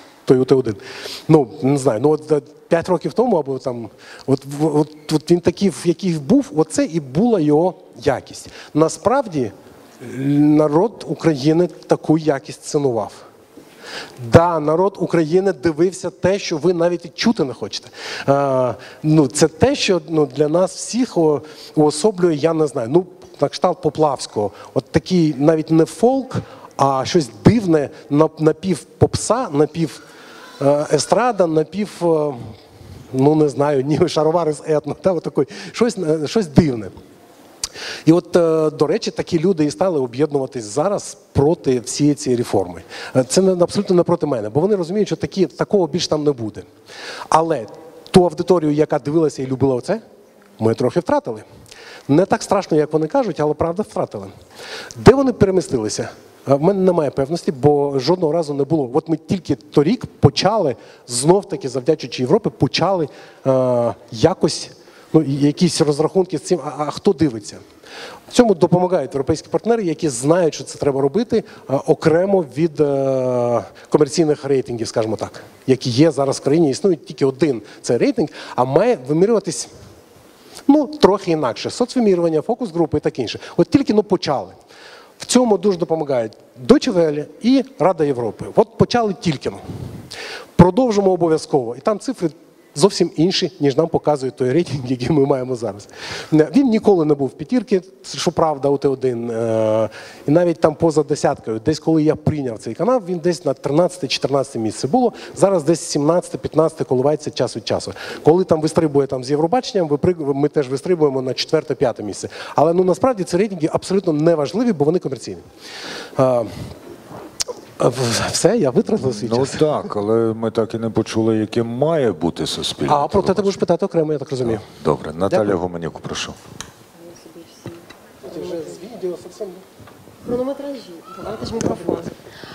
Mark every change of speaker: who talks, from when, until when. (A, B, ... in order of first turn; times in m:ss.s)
0:00.3-0:13.2 A
0:14.2-0:30.0 A
0:30.6-0:32.6 A
0:33.1-0:36.9 A
0:38.0-0:46.7 A
0:47.3-0:50.0 A
0:50.6-0:51.4 A
0:52.1-0:54.3 A
0:55.0-1:07.6 A
1:08.3-1:19.7 A
1:20.7-1:24.6 A
1:25.2-1:29.6 A
1:30.6-1:55.4 A
1:56.2-1:56.6 A
1:57.8-1:59.6 A
1:59.2-2:03.6 B
2:02.9-2:04.6 A
2:04.5-2:06.4 B
2:07.4-2:07.7 C
2:08.2-2:09.6 A
2:10.3-2:12.1 C
2:11.3-2:12.1 A